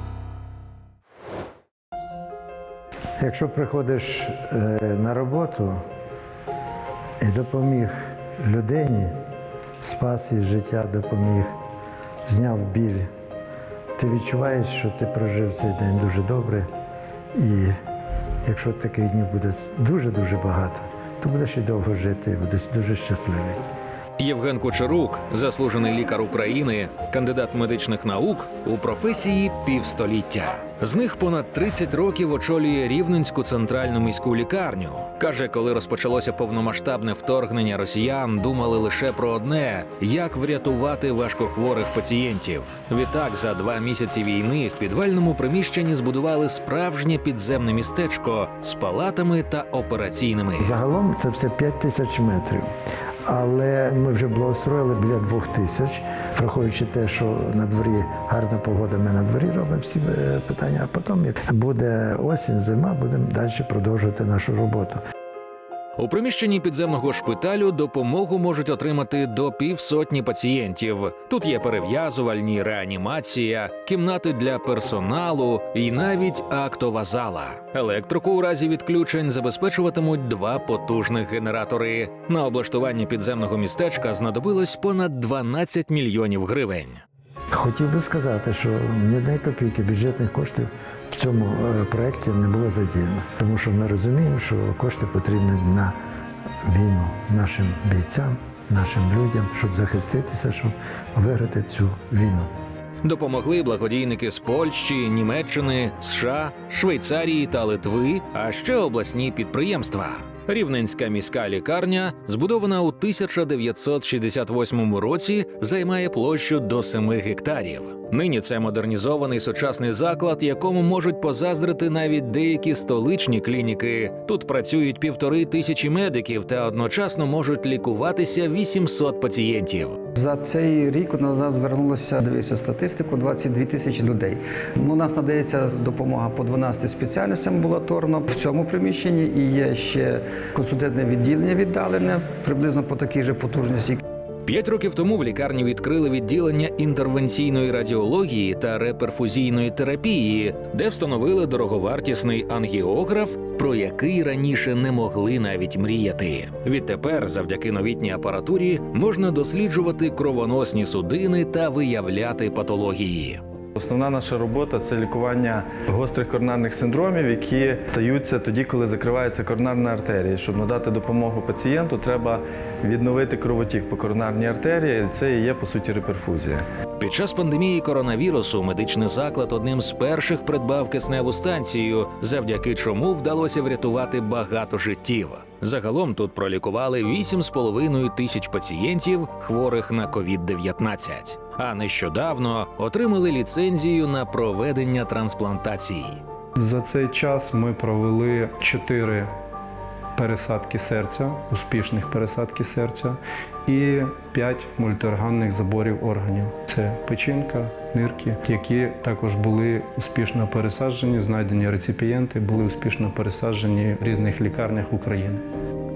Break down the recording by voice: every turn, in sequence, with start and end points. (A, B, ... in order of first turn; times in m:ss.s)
0:03.2-0:05.8 A
0:07.2-0:09.1 A
0:09.8-0:11.5 A
0:12.3-0:13.1 A
0:14.0-0:16.7 A
0:17.4-0:17.8 A
0:18.4-0:23.6 A
0:24.2-0:50.8 B
0:50.6-0:52.7 A
0:53.2-1:05.0 A
1:06.0-1:27.0 B
1:27.5-1:35.9 A
1:36.6-1:42.5 A
1:43.0-2:10.0 B
2:10.1-2:24.0 C
2:24.4-2:43.4 B
2:43.8-2:56.6 D
2:57.0-3:16.2 B
3:16.6-3:19.3 E
3:20.2-3:35.4 E